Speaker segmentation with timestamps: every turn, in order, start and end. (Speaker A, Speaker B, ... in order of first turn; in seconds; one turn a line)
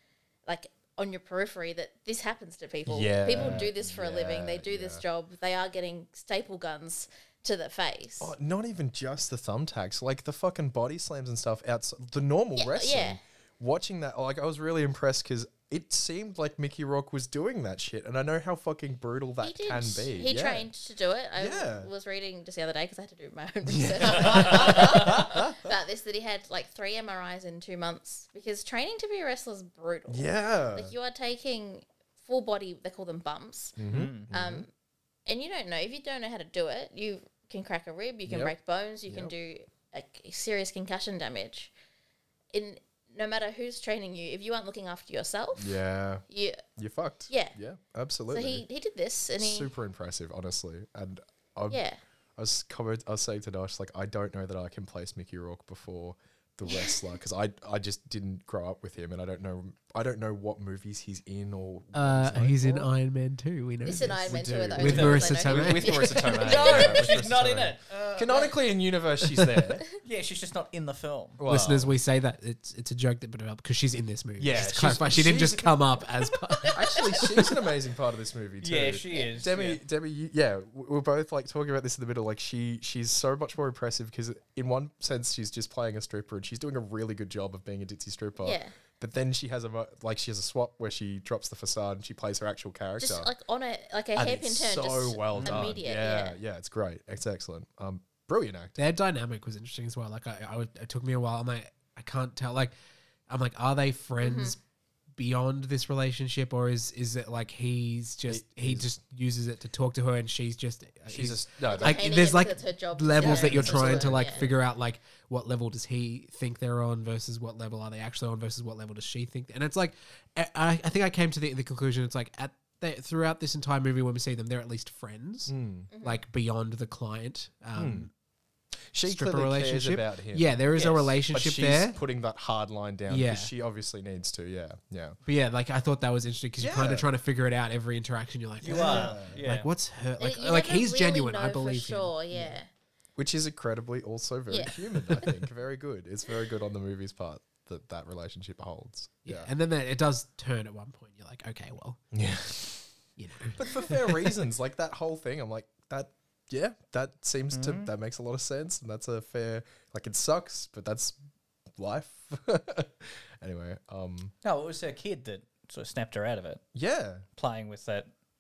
Speaker A: 0.5-8.3
Speaker B: 2.9-5.0
Speaker C: 3.4-3.6
Speaker B: 8.2-20.7
Speaker A: 12.6-13.2
Speaker A: 19.4-33.8
Speaker B: 21.4-21.9
Speaker B: 23.7-25.6
Speaker C: 24.1-25.0
Speaker B: 30.1-30.9
Speaker B: 33.8-34.7
Speaker C: 33.9-34.3
Speaker A: 34.3-34.7
Speaker A: 35.3-41.7
Speaker B: 38.3-38.5
Speaker B: 39.1-39.3
Speaker A: 42.5-45.7
Speaker B: 45.6-46.2
Speaker A: 46.3-46.6
Speaker B: 46.8-48.6
Speaker A: 47.3-47.6
Speaker A: 48.3-49.7
Speaker B: 49.4-51.8
Speaker A: 51.7-52.0
Speaker B: 52.4-62.9
Speaker A: 56.7-57.0
Speaker D: 61.9-66.0
Speaker A: 63.9-67.2
Speaker B: 64.2-69.8
Speaker C: 64.8-65.3
Speaker C: 65.9-68.6
Speaker C: 70.0-71.4
Speaker B: 71.4-71.9
Speaker D: 71.5-77.1
Speaker B: 74.4-75.8
Speaker B: 76.7-93.3
Speaker C: 78.6-79.8
Speaker A: 88.4-88.7
Speaker A: 93.0-96.4
Speaker B: 94.2-98.8
Speaker C: 95.3-95.7
Speaker D: 98.8-102.7
Speaker D: 103.3-104.6
Speaker A: 104.2-104.6
Speaker D: 105.2-128.1
Speaker B: 108.3-108.9
Speaker B: 111.1-112.3
Speaker A: 111.7-114.5
Speaker B: 113.2-114.5
Speaker B: 125.5-125.9
Speaker A: 125.9-126.2
Speaker B: 127.8-128.1
Speaker B: 128.9-135.2
Speaker D: 129.0-132.0
Speaker C: 130.8-131.1
Speaker D: 133.1-133.5
Speaker D: 135.2-142.6
Speaker B: 136.6-137.1
Speaker C: 138.6-139.7
Speaker B: 138.6-139.4
Speaker A: 140.2-142.7
Speaker B: 143.2-149.5
Speaker A: 144.5-145.3
Speaker D: 149.3-152.0
Speaker B: 152.1-152.9
Speaker D: 153.2-154.2
Speaker B: 153.5-161.2
Speaker C: 157.5-157.9
Speaker B: 161.8-164.3
Speaker C: 164.4-166.6
Speaker B: 166.7-167.2
Speaker C: 167.4-168.1